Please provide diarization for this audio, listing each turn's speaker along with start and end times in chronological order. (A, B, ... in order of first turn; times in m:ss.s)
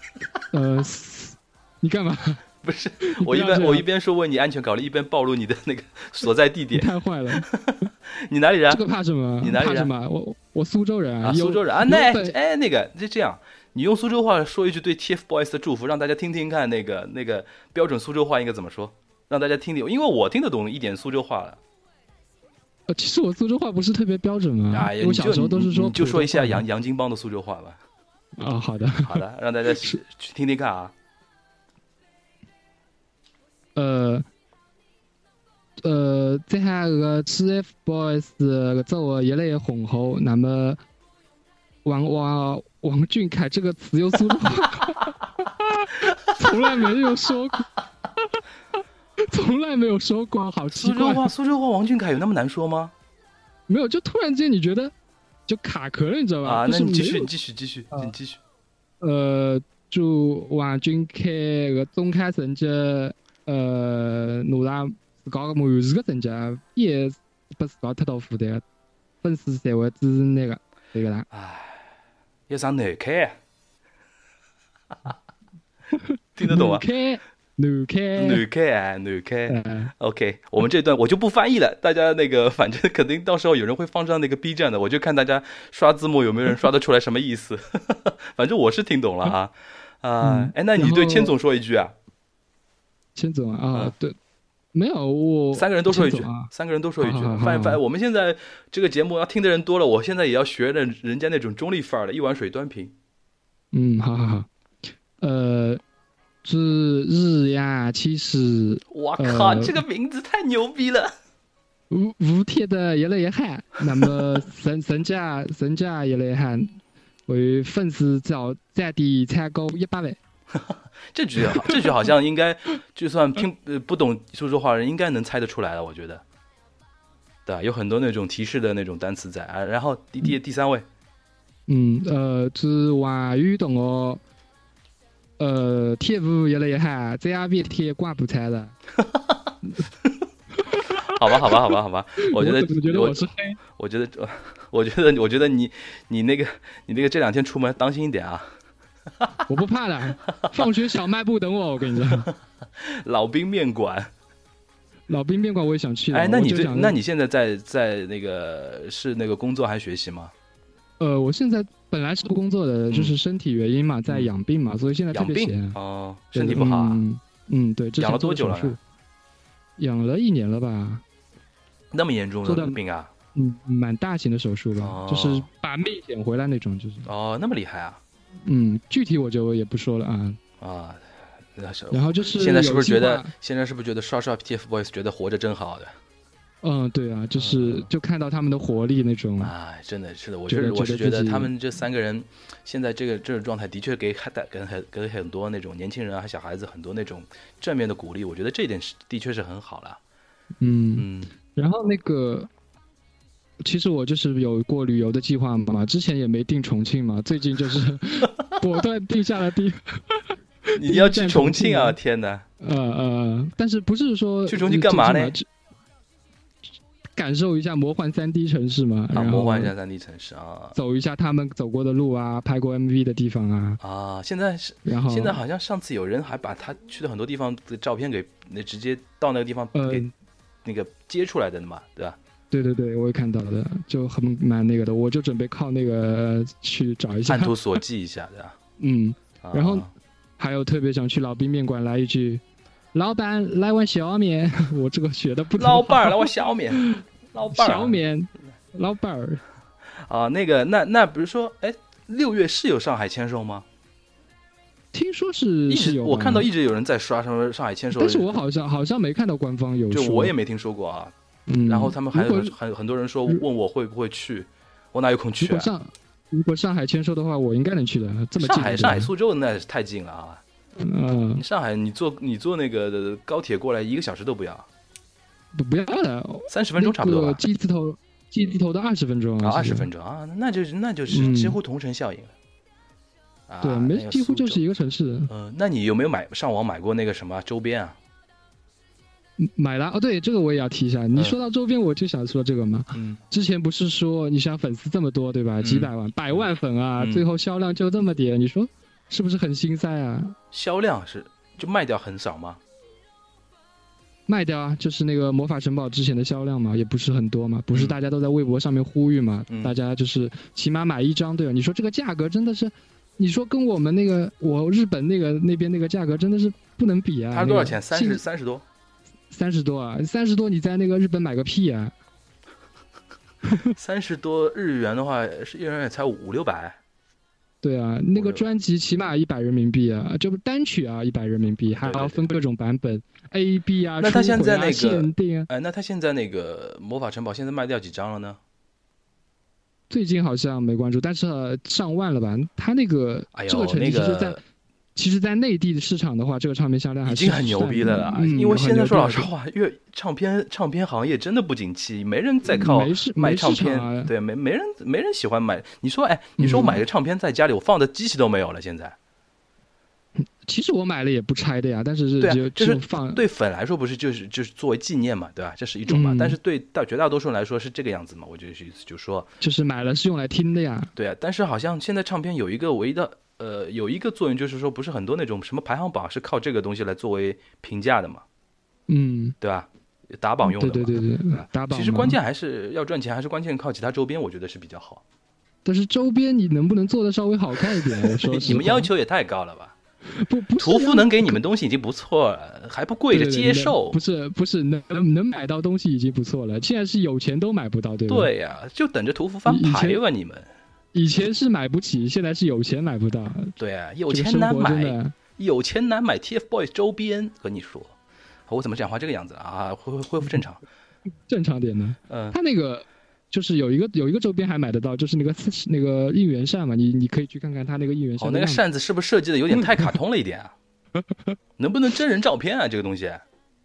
0:00.5-0:02.4 A
0:02.6-0:08.8 B
0:03.0-0:03.8 A
0:06.7-0:07.5 A
0:08.7-0:12.4 A
0:09.4-0:09.9 B
0:11.2-0:21.6 B
0:22.9-0:26.6 A
0:24.7-0:27.8 B
0:28.4-0:29.2 A
0:29.0-0:30.9 B
0:33.8-0:34.3 A
0:35.8-0:40.8 A
0:41.8-0:47.7 A
0:49.2-0:51.3 A
0:50.7-0:52.9 B
0:53.7-0:54.9 A
0:55.5-0:57.3 A
0:56.4-0:58.4 B
0:59.0-1:08.6 A
1:09.2-1:11.3 A
1:11.3-1:11.9 B
1:12.5-1:13.4 B
1:15.9-1:18.4 A
1:16.4-1:16.8 B
1:18.2-1:32.0 B
1:19.5-1:19.9 A
1:30.2-1:31.3 A
1:33.2-1:34.2 A
1:34.7-1:37.8 A
1:35.5-1:43.0 B
1:43.7-1:44.5 A
1:45.2-1:45.8 A
1:46.4-1:49.8 A
1:48.9-1:51.1 B
1:51.9-2:00.2 A
2:00.5-2:06.2 B
2:07.5-2:10.9 B
2:11.7-2:14.2 A
2:15.4-2:18.7 A
2:20.6-2:21.6 A
2:21.1-2:23.2 B
2:22.2-2:23.6 A
2:23.8-2:28.5 B
2:29.5-2:32.3 A
2:32.1-2:34.1 B
2:35.1-2:37.0 A
2:36.1-2:40.3 B
2:41.0-2:45.8 A
2:42.9-2:43.2 B
2:45.1-2:47.0 B
2:46.3-2:48.8 A
2:48.0-2:48.8 B
2:49.8-2:51.0 A
2:51.9-2:53.1 B
2:52.4-2:52.8 A
2:53.4-2:57.1 A
2:54.8-2:55.5 B
2:57.1-2:58.0 B
2:58.4-3:00.4 A
3:00.6-3:05.9 B
3:01.9-3:03.3 A
3:06.6-3:09.5 A
3:07.4-3:07.9 B
3:09.4-3:20.0 B
3:10.5-3:11.5 A
3:20.6-3:22.5 A
3:21.0-3:21.3 B
3:23.6-3:32.0 A
3:30.8-3:32.5 B
3:32.6-3:35.5 A
3:34.5-3:35.4 B
3:37.2-3:39.7 A
3:39.1-3:40.8 B
3:40.8-3:43.8 A
3:43.8-3:50.1 B
3:44.8-3:45.4 A
3:49.7-3:50.1 A
3:50.6-3:52.2 B
3:52.5-3:57.5 A
3:57.2-3:58.6 B
3:58.8-4:02.4 A
3:59.4-3:59.9 B
4:02.9-4:09.4 A
4:05.6-4:08.0 B
4:09.9-4:13.7 B
4:14.9-4:16.5 A
4:15.7-4:18.4 B
4:18.0-4:20.3 A
4:19.9-4:21.1 B
4:21.5-4:22.6 A
4:21.7-4:25.7 B
4:25.4-4:29.1 A
4:28.4-4:30.4 B
4:30.8-4:31.4 A
4:31.4-4:34.7 B
4:35.5-4:39.9 A
4:36.5-4:37.4 B
4:39.4-4:42.3 B
4:41.1-4:41.6 A
4:43.5-4:44.6 B
4:43.6-4:45.3 A
4:45.3-4:48.0 B
4:49.4-5:00.4 A
4:52.9-4:53.2 B
4:55.6-4:56.4 B
4:57.0-4:57.2 B
5:00.5-5:02.6 B
5:04.3-5:18.2 A
5:07.7-5:08.0 B
5:09.5-5:09.8 B
5:17.3-5:18.6 B
5:19.3-5:21.9 A
5:23.8-5:26.8 B
5:27.6-5:35.5 A
5:28.2-5:28.5 B
5:31.7-5:32.3 B
5:34.0-5:38.4 B
5:39.9-5:44.4 A
5:43.3-5:44.4 B
5:45.0-5:49.3 A
5:47.1-5:59.0 B
5:52.5-5:54.1 A
5:56.4-5:56.8 A
6:00.2-6:03.2 A
6:02.2-6:09.3 B
6:05.9-6:06.4 A
6:09.4-6:10.9 A
6:11.0-6:18.2 B
6:18.9-6:19.4 A
6:19.4-6:25.0 B
6:20.4-6:22.2 A
6:25.6-6:28.9 A
6:27.7-6:29.8 B
6:30.1-6:31.4 A
6:30.6-6:34.0 B
6:33.1-6:38.3 A
6:38.1-6:40.5 B
6:39.5-6:40.0 A
6:40.9-6:43.6 A
6:43.6-6:48.0 B
6:44.1-6:45.2 A
6:48.5-6:50.6 B
6:51.3-6:58.6 A
6:52.1-6:52.4 B
6:58.2-7:00.5 B
6:59.5-6:59.9 A
7:01.0-7:01.4 A
7:01.6-7:03.2 B